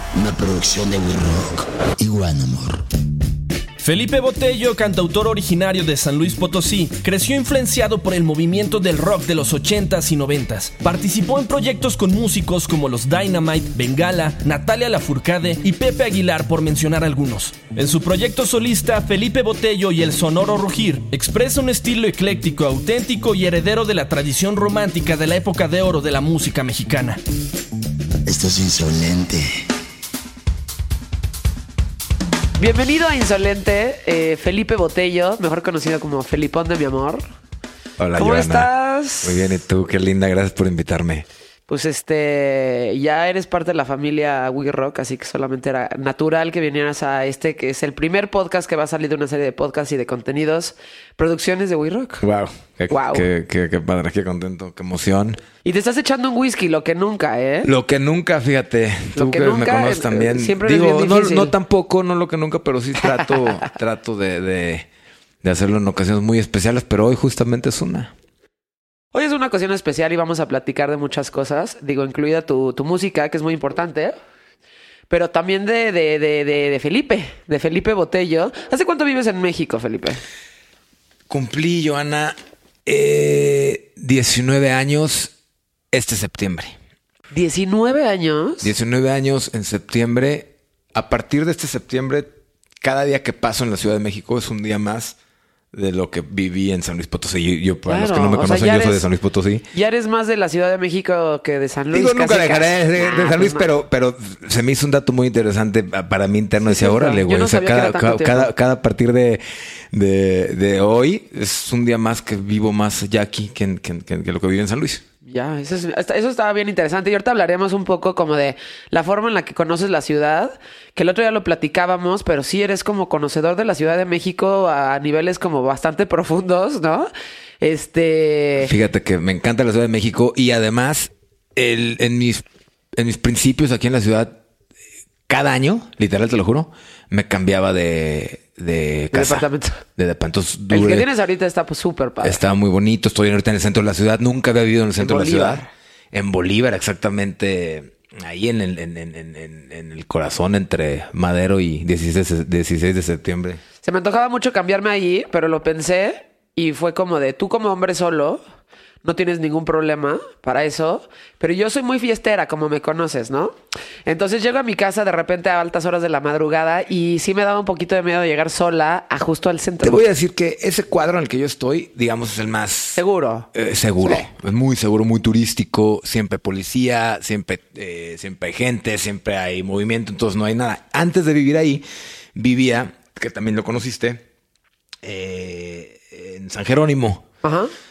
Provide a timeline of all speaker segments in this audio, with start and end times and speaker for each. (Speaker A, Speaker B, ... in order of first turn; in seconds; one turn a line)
Speaker A: 0.1-2.8
Speaker B: 3.8-27.2
Speaker A: 28.2-29.5
Speaker C: 32.6-37.2
Speaker D: 38.0-38.7
Speaker C: 38.1-39.4
Speaker D: 39.2-41.3
Speaker C: 41.7-52.2
Speaker D: 52.2-55.4
Speaker C: 52.9-53.3
Speaker C: 55.6-57.7
Speaker D: 57.6-64.9
Speaker C: 59.2-61.5
Speaker D: 65.4-68.1
Speaker C: 69.1-74.2
Speaker C: 75.1-80.2
Speaker D: 81.3-85.3
Speaker D: 85.9-86.8
Speaker C: 87.3-88.7
Speaker D: 88.6-92.3
Speaker D: 92.8-95.2
Speaker D: 95.7-99.6
Speaker C: 97.9-99.0
Speaker C: 99.7-103.7
Speaker D: 101.9-115.0
Speaker C: 106.7-108.5
Speaker C: 115.2-127.1
Speaker C: 127.6-128.7
Speaker D: 128.6-132.4
Speaker D: 133.0-134.3
Speaker D: 135.3-141.1
Speaker C: 139.1-139.8
Speaker C: 140.7-142.4
Speaker D: 142.2-153.6
Speaker C: 145.0-145.7
Speaker C: 153.8-158.4
Speaker C: 159.0-163.6
Speaker C: 164.1-170.0
Speaker D: 169.8-173.0
Speaker C: 173.0-173.5
Speaker D: 173.5-181.8
Speaker C: 174.0-174.3
Speaker D: 182.3-184.2
Speaker D: 185.0-187.3
Speaker C: 187.4-187.7